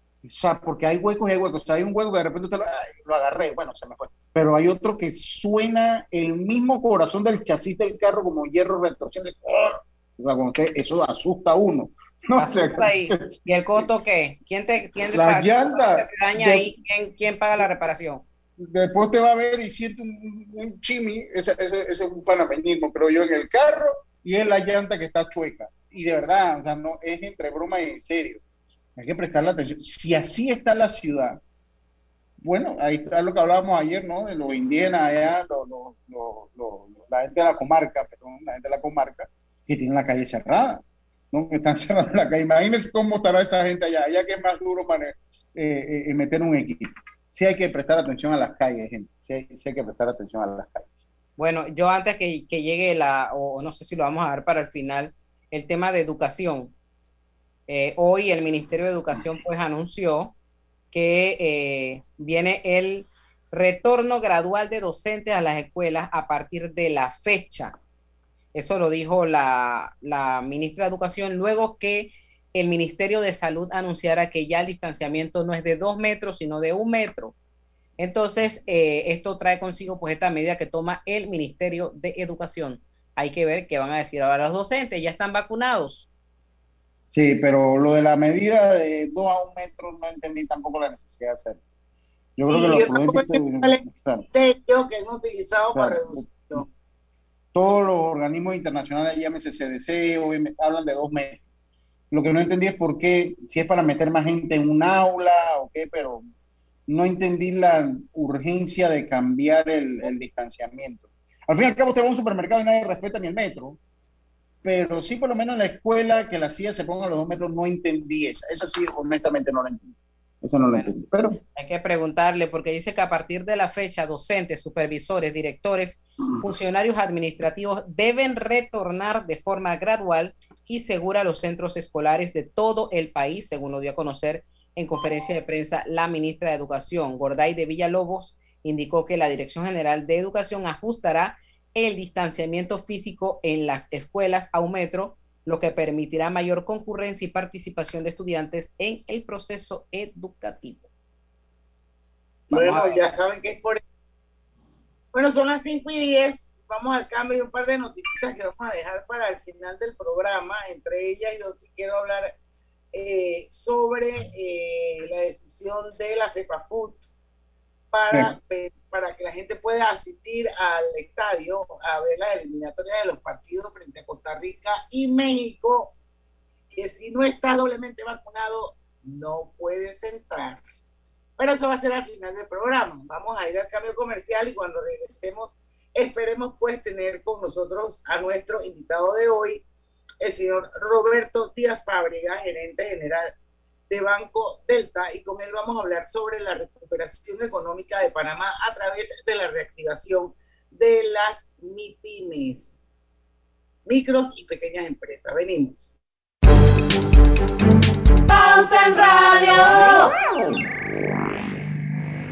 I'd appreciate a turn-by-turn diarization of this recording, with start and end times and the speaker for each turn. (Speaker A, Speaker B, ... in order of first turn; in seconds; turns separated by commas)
Speaker A: 0.2-13.3, Speaker B: 12.4-18.2, Speaker A: 15.1-16.8, Speaker A: 18.6-28.4, Speaker A: 29.0-31.4, Speaker A: 32.4-50.9, Speaker B: 51.4-56.7, Speaker B: 57.7-60.3, Speaker B: 60.9-67.8, Speaker B: 68.5-77.3, Speaker B: 78.0-86.1, Speaker A: 87.1-91.6, Speaker A: 92.4-94.2, Speaker C: 92.5-96.7, Speaker A: 95.7-96.6, Speaker A: 97.5-101.4, Speaker A: 102.1-106.2, Speaker A: 106.9-113.8, Speaker A: 114.6-119.9, Speaker A: 120.4-121.4, Speaker B: 121.6-150.9, Speaker C: 152.5-153.8, Speaker B: 152.5-153.0, Speaker C: 155.1-162.3, Speaker C: 162.9-167.1, Speaker C: 167.9-175.9, Speaker C: 176.7-180.6, Speaker C: 181.4-189.6, Speaker C: 190.2-193.3, Speaker C: 193.9-202.8, Speaker C: 203.8-206.0